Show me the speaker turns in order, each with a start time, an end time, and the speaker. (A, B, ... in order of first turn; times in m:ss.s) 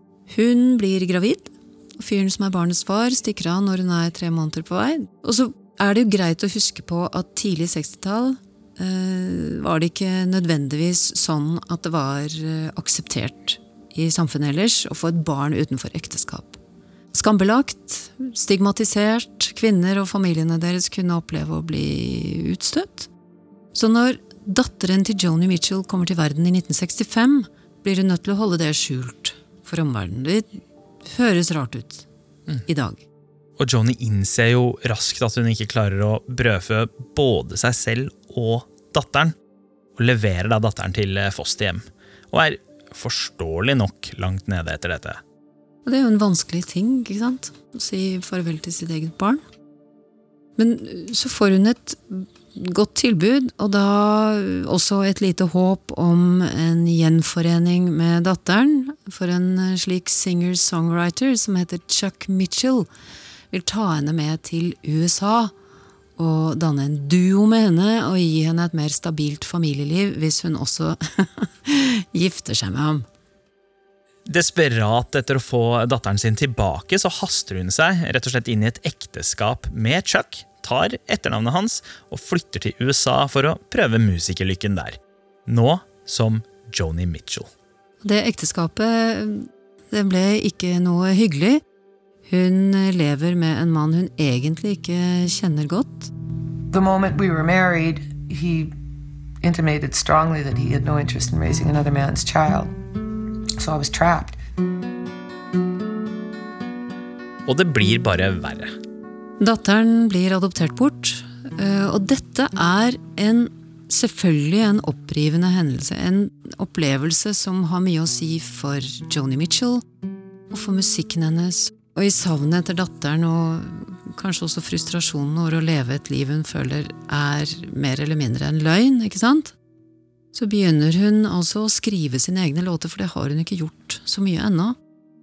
0:00.3-0:16.6 A
0:17.1-0:23.1 A
0:23.7-0:32.1 A
0:32.7-0:33.0 A
0:33.6-0:39.4 B
0:40.0-0:45.2 B
0:45.8-0:49.4 A
0:50.6-1:02.9 A
1:03.5-1:05.5 A
1:06.2-1:13.1 A
1:14.3-1:27.5 B
1:28.0-1:31.6 A
1:32.3-1:36.1 A
1:36.7-1:38.7 C
1:39.4-1:42.7 C
1:43.6-1:44.4 C
1:47.5-1:48.7 B
1:49.4-1:59.8 A
2:00.5-2:09.6 A
2:10.3-2:14.8 A